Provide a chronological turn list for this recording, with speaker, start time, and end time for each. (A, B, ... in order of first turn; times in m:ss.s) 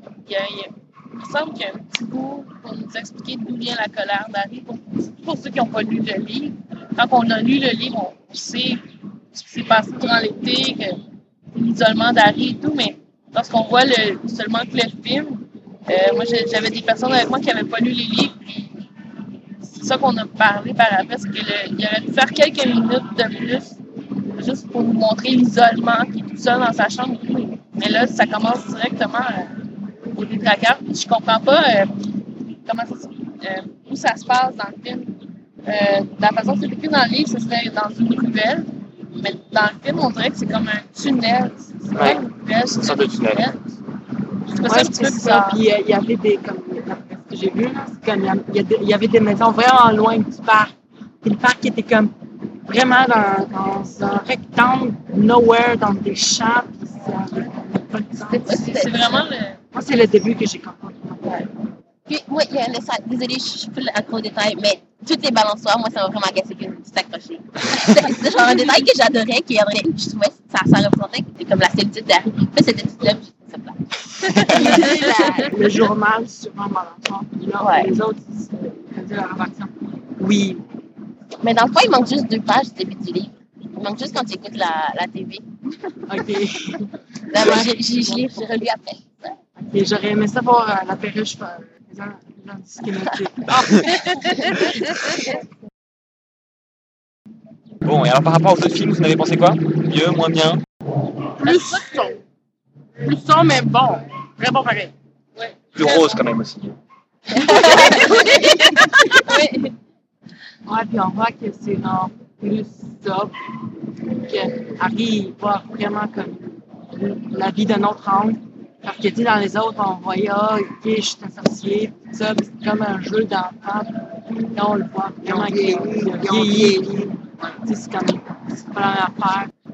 0:00.2-0:11.0 A
0:11.5-0:18.7 A
0:19.7-0:23.8 A
0:24.3-0:29.5 A
0:30.1-0:32.0 A
0:32.6-0:35.1 A
0:35.6-0:43.6 A
0:41.9-0:42.2 B
0:42.7-0:43.5 B
0:44.5-0:45.6 A
0:44.6-0:52.1 C
0:52.6-0:58.8 C
0:58.3-0:59.6 A
0:58.3-0:59.2 D
0:59.7-1:01.5 C
1:02.1-1:15.5 D
1:14.3-1:20.6 C
1:17.6-1:17.9 D
1:21.4-1:25.4 D
1:26.1-1:28.4 C
1:27.3-1:29.3 D
1:29.7-1:35.3 C
1:37.8-1:40.6 B
1:41.4-1:42.2 E
1:41.4-1:41.9 A
1:43.0-1:44.9 E
1:45.4-1:46.2 A
1:45.7-1:46.8 B
1:47.3-1:49.6 A
1:47.6-1:48.4 D
1:50.6-1:53.3 C
1:54.1-2:09.5 C
2:05.2-2:06.9 E